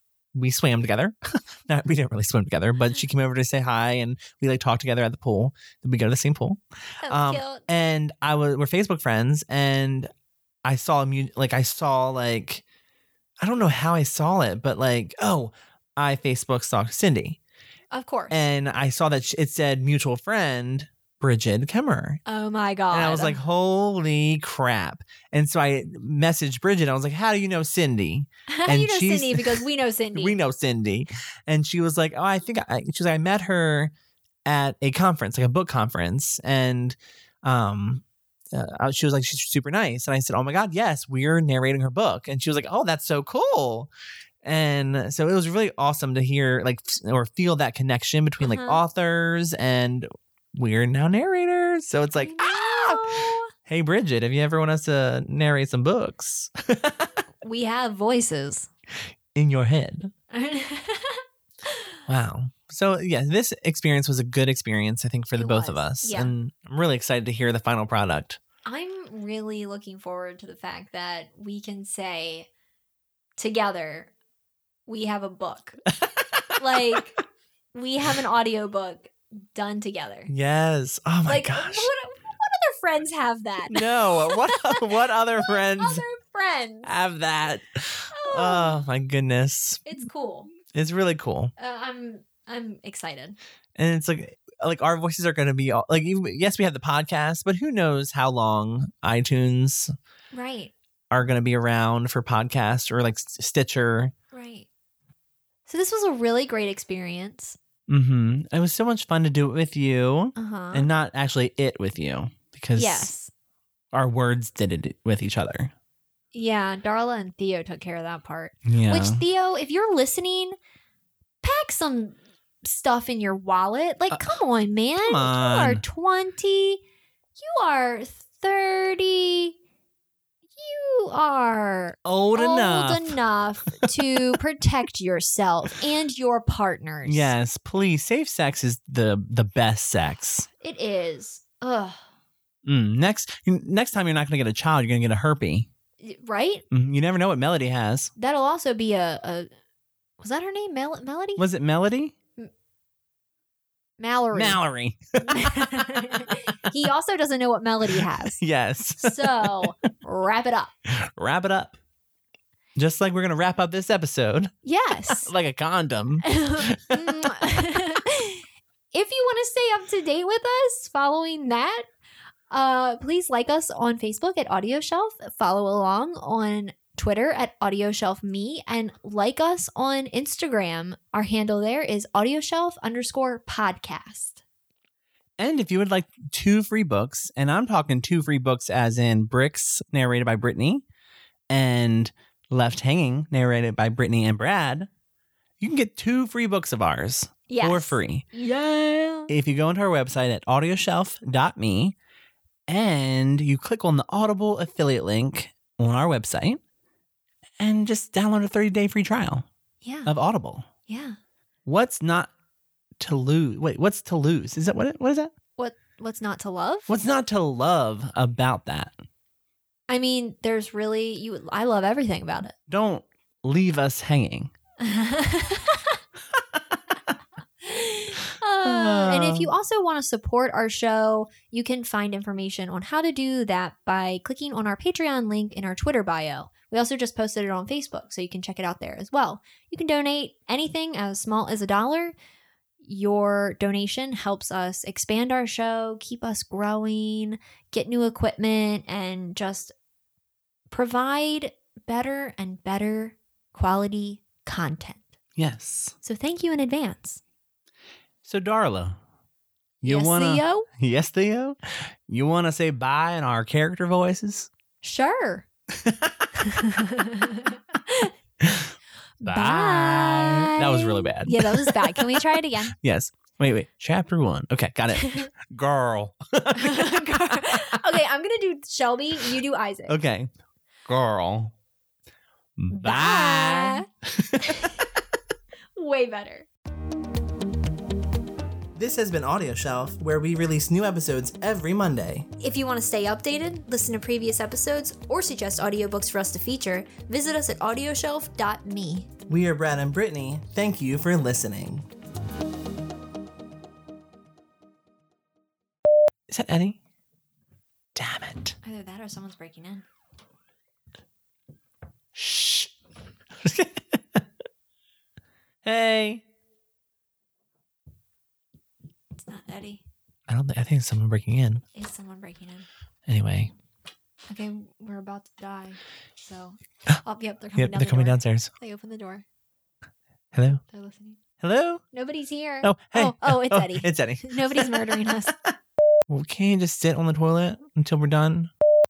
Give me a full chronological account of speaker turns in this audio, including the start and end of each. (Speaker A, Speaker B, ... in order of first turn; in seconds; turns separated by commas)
Speaker A: 0.3-10.1, Speaker B: 7.0-7.6, Speaker A: 10.6-12.6, Speaker A: 13.4-17.4, Speaker B: 17.9-18.4, Speaker A: 18.3-22.2, Speaker B: 22.2-23.4, Speaker A: 22.9-29.6, Speaker B: 28.5-30.4, Speaker A: 30.1-33.9, Speaker A: 34.5-43.9, Speaker A: 44.4-57.2, Speaker B: 48.4-48.8, Speaker B: 52.2-53.5, Speaker B: 57.4-58.7, Speaker A: 59.3-60.1, Speaker B: 60.3-62.0, Speaker A: 62.1-68.4, Speaker B: 65.4-66.3, Speaker B: 68.6-72.5, Speaker B: 73.4-74.1, Speaker B: 74.9-75.8, Speaker A: 75.9-77.0, Speaker B: 76.6-77.2, Speaker B: 77.7-80.3, Speaker A: 80.3-81.9, Speaker B: 81.2-86.9, Speaker A: 83.7-86.0, Speaker A: 86.8-89.8, Speaker B: 88.1-88.8, Speaker B: 89.8-90.5, Speaker A: 90.7-91.5, Speaker B: 91.6-93.4, Speaker A: 93.8-99.9, Speaker B: 100.3-100.7, Speaker A: 101.1-104.1, Speaker B: 104.3-104.7, Speaker B: 105.7-107.6, Speaker A: 107.9-113.1, Speaker B: 110.4-110.9, Speaker B: 112.8-113.3, Speaker A: 113.9-115.7, Speaker B: 116.3-120.5, Speaker A: 118.7-119.2, Speaker B: 121.4-126.8, Speaker A: 125.0-125.8, Speaker B: 127.4-129.6, Speaker B: 130.5-137.3, Speaker A: 132.1-133.2, Speaker A: 133.8-134.2, Speaker A: 137.0-140.5, Speaker B: 140.6-142.0, Speaker A: 142.6-145.7, Speaker B: 146.0-146.6, Speaker A: 146.7-148.1, Speaker B: 148.2-149.5, Speaker B: 150.2-151.4, Speaker A: 151.4-152.1, Speaker B: 154.0-154.6, Speaker A: 154.3-156.3, Speaker B: 155.2-158.4, Speaker A: 157.9-159.7, Speaker B: 159.0-160.7, Speaker A: 160.9-161.8, Speaker A: 162.8-164.5, Speaker B: 164.6-165.3, Speaker A: 165.1-167.4, Speaker B: 166.2-171.9, Speaker B: 172.5-184.4, Speaker A: 185.4-190.8, Speaker A: 191.5-194.9, Speaker A: 195.6-198.2, Speaker B: 197.5-199.3, Speaker A: 199.3-201.9, Speaker A: 202.7-206.6, Speaker A: 207.6-209.4, Speaker B: 209.8-210.1, Speaker A: 210.1-210.7, Speaker B: 210.9-211.2, Speaker A: 211.7-212.3, Speaker A: 213.0-215.3, Speaker B: 215.6-216.9, Speaker A: 216.9-219.0, Speaker B: 219.9-222.5, Speaker A: 222.7-224.5, Speaker B: 224.8-226.0, Speaker B: 227.6-242.1, Speaker A: 228.6-229.5, Speaker B: 242.8-249.7, Speaker B: 250.7-255.1, Speaker A: 255.4-255.9, Speaker B: 256.0-257.2, Speaker A: 258.2-259.0, Speaker A: 259.8-264.5, Speaker B: 259.8-260.6, Speaker B: 264.8-265.5, Speaker A: 265.7-266.3, Speaker B: 266.4-268.1, Speaker A: 268.4-268.7, Speaker B: 269.2-272.8, Speaker A: 269.2-277.8, Speaker B: 274.9-275.3, Speaker B: 276.5-280.0, Speaker A: 279.9-280.3, Speaker A: 280.9-281.5, Speaker A: 282.6-284.8, Speaker B: 282.7-283.9, Speaker B: 284.4-284.8, Speaker B: 285.7-286.5, Speaker A: 288.7-292.3, Speaker B: 292.4-299.1, Speaker A: 299.3-301.8, Speaker A: 306.3-306.8, Speaker A: 307.9-308.6, Speaker B: 308.6-309.8, Speaker A: 312.1-312.7, Speaker A: 313.4-314.2, Speaker A: 315.6-316.2, Speaker B: 319.2-319.8, Speaker A: 320.3-321.6, Speaker B: 321.7-322.7, Speaker A: 323.1-323.5, Speaker B: 324.3-329.2, Speaker A: 327.6-328.5, Speaker A: 330.3-330.6, Speaker B: 330.7-331.2, Speaker A: 331.4-331.8, Speaker B: 331.9-335.3, Speaker A: 332.6-335.3, Speaker A: 336.1-338.5